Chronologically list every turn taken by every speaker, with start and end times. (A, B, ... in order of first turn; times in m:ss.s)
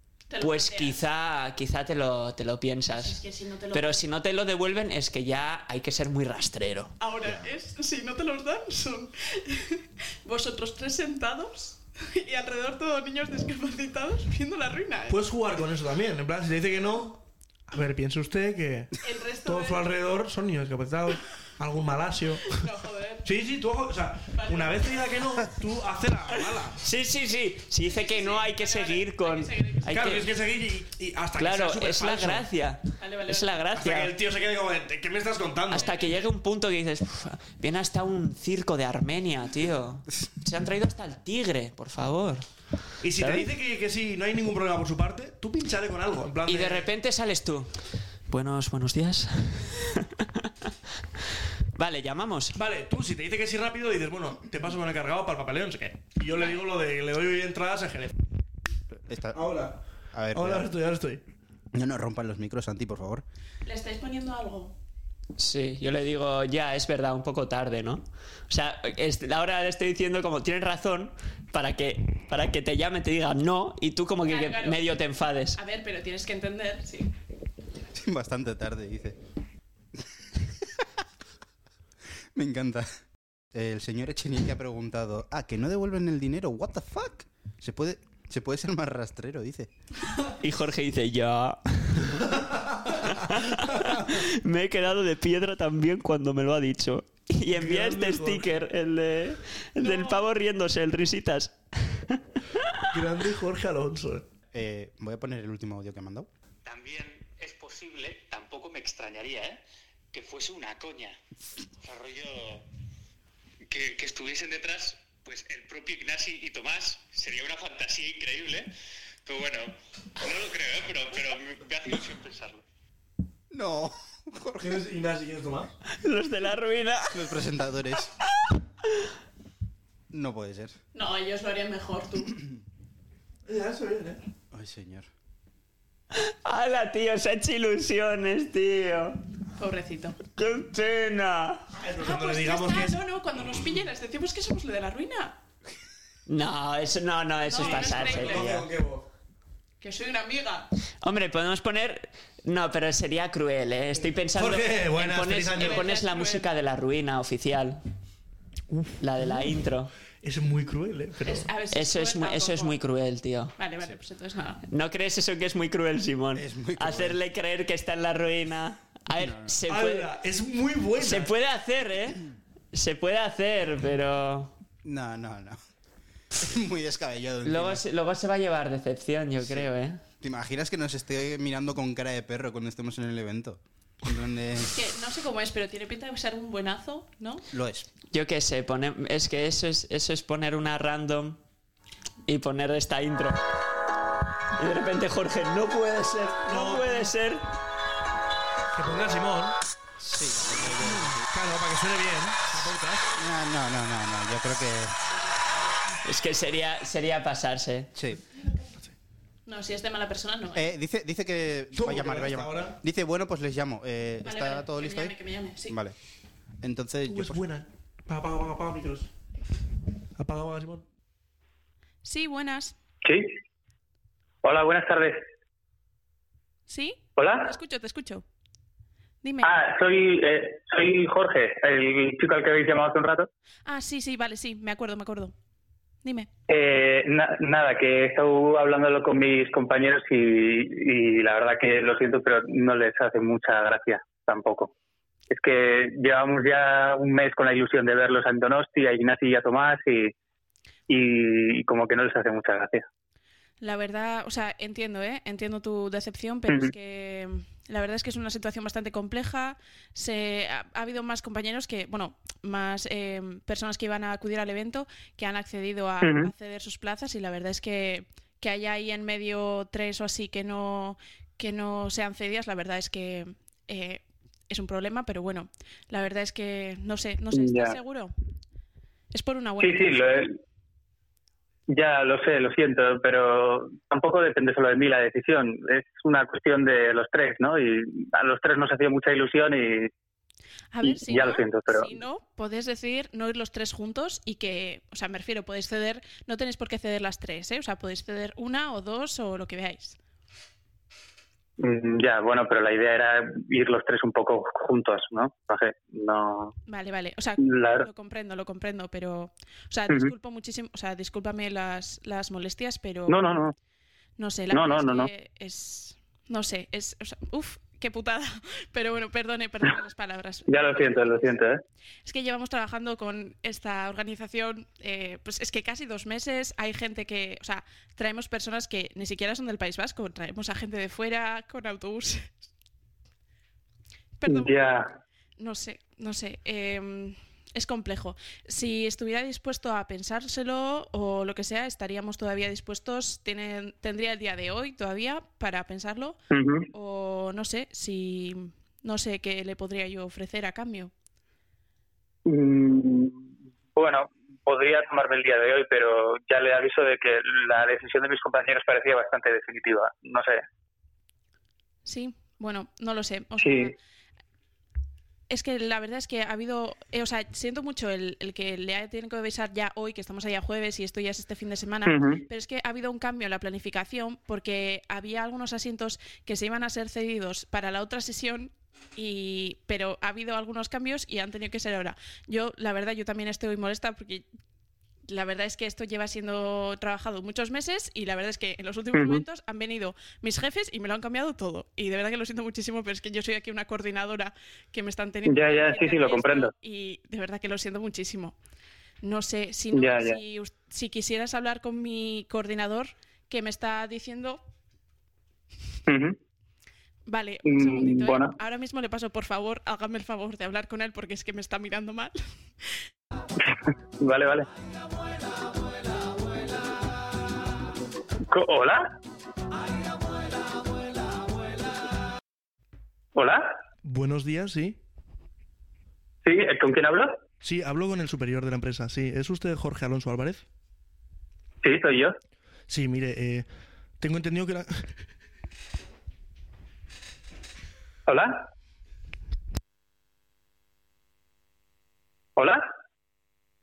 0:00.3-0:01.0 A
0:00.4-0:03.2 B
0:02.9-0:04.0 A
0:03.7-0:07.0 B
0:07.0-0:15.2 A
0:15.1-0:22.6 C
0:19.0-0:20.0 A
0:22.5-0:23.3 A
0:23.2-0:26.8 C
0:24.4-0:24.9 A
0:26.8-0:30.3 B
0:27.8-0:29.9 A
0:29.9-0:32.5 C
0:31.4-0:34.1 B
0:33.0-0:33.5 A
0:33.8-0:35.9 C
0:35.7-0:42.5 B
0:35.7-0:36.3 A
0:43.0-0:46.9 C
0:43.2-0:43.5 B
0:46.5-0:47.7 B
0:48.3-0:50.5 B
0:51.8-0:52.6 B
0:52.6-0:58.1 C
0:56.3-0:56.6 A
0:59.1-0:59.6 D
0:59.3-0:59.8 C
1:00.1-1:00.7 D
1:00.3-1:01.2 C
1:01.7-1:03.2 D
1:03.6-1:04.8 A
1:05.4-1:15.6 B
1:14.3-1:15.0 A
1:15.6-1:17.1 A
1:17.9-1:19.2 D
1:20.4-1:20.8 D
1:22.3-1:22.9 D
1:23.5-1:29.7 D
1:30.4-1:32.4 B
1:32.9-1:42.6 B
1:33.6-1:34.2 C
1:37.5-1:38.5 C
1:39.8-1:40.2 A
1:42.9-1:44.3 C
1:44.5-1:46.3 D
1:46.6-1:49.6 E
1:50.1-1:51.2 E
1:51.8-1:52.7 E
1:53.7-1:58.7 E
1:59.2-2:02.6 E
2:03.5-2:04.8 D
2:04.6-2:05.7 C
2:06.0-2:07.2 B
2:07.1-2:08.2 D
2:10.1-2:10.8 D
2:10.9-2:12.4 A
2:13.5-2:14.2 C
2:14.5-2:15.1 D
2:16.2-2:19.2 B
2:19.6-2:20.2 A
2:20.4-2:21.6 B
2:21.8-2:23.0 C
2:22.0-2:25.4 A
2:26.3-2:28.7 B
2:27.4-2:28.4 A
2:27.6-2:29.1 C
2:29.8-2:30.7 A
2:31.0-2:37.8 B
2:34.0-2:35.8 C
2:35.6-2:36.5 A
2:38.7-2:39.5 C
2:39.0-2:39.9 B
2:40.2-2:41.5 C
2:41.2-2:42.8 A
2:41.7-2:43.5 B
2:43.6-2:44.6 A
2:44.7-2:50.1 B
2:46.4-2:47.2 D
2:49.2-2:49.6 D
2:49.7-2:51.3 C
2:51.0-2:52.2 B
2:52.7-2:54.5 B
2:54.8-2:55.6 D
2:56.4-2:57.8 D
2:57.4-3:00.0 B
2:59.4-2:59.7 D
3:00.2-3:04.8 D
3:04.7-3:07.4 A
3:07.5-3:07.9 D
3:08.1-3:11.4 B
3:12.3-3:13.4 B
3:14.6-3:17.4 B
3:16.5-3:17.1 C
3:18.7-3:19.6 C
3:20.0-3:21.3 D
3:21.3-3:23.1 C
3:23.2-3:25.0 D
3:26.0-3:27.9 B
3:28.0-3:28.2 D
3:28.5-3:28.9 C
3:29.5-3:30.7 A
3:30.5-3:35.2 D
3:31.8-3:32.8 C
3:34.2-3:35.8 A
3:35.7-3:36.0 D
3:36.6-3:37.4 D
3:37.1-3:39.1 C
3:40.2-3:40.8 C
3:42.0-3:42.8 A
3:43.0-3:43.3 F
3:44.4-3:45.3 F
3:46.7-3:48.2 A
3:47.2-3:47.5 F
3:49.2-3:49.5 A
3:49.4-3:53.3 F
3:53.7-3:55.3 A
3:56.0-3:56.3 A
3:56.5-4:04.7 F
4:05.3-4:10.1 F
4:10.9-4:12.9 F
4:13.6-4:38.1 A
4:26.0-4:26.3 F
4:37.3-4:37.8 F
4:39.1-4:40.3 A
4:39.6-4:40.4 F
4:41.7-4:49.9 F
4:50.7-5:00.0 A
4:50.8-4:52.0 F
5:01.6-5:06.6 F
5:06.7-5:13.2 A
5:07.4-5:07.9 F
5:13.1-5:13.6 F
5:14.2-5:21.2 A
5:14.5-5:15.1 F
5:20.5-5:21.6 F
5:22.0-5:32.4 A
5:34.2-5:34.6 A
5:34.3-5:34.9 F
5:35.4-5:46.2 A
5:46.3-5:46.7 F
5:46.7-5:50.9 A
5:52.3-6:00.4 F
6:01.9-6:03.7 A
6:03.4-6:03.7 F
6:05.3-6:24.3 A
6:11.9-6:12.2 F
6:25.1-6:38.4 A
6:28.9-6:29.2 F
6:35.3-6:36.5 F
6:39.0-6:44.4 A
6:39.7-6:40.2 F
6:45.9-6:46.2 F
6:47.1-6:52.2 A
6:47.4-6:48.3 F
6:54.0-6:54.5 F
6:58.3-6:58.9 F
7:03.2-7:03.6 F
7:03.8-7:04.8 C
7:06.2-7:07.2 F
7:07.4-7:10.4 C
7:11.6-7:12.2 F
7:12.7-7:13.5 C
7:14.0-7:14.7 C
7:18.1-7:18.4 F
7:22.4-7:22.6 F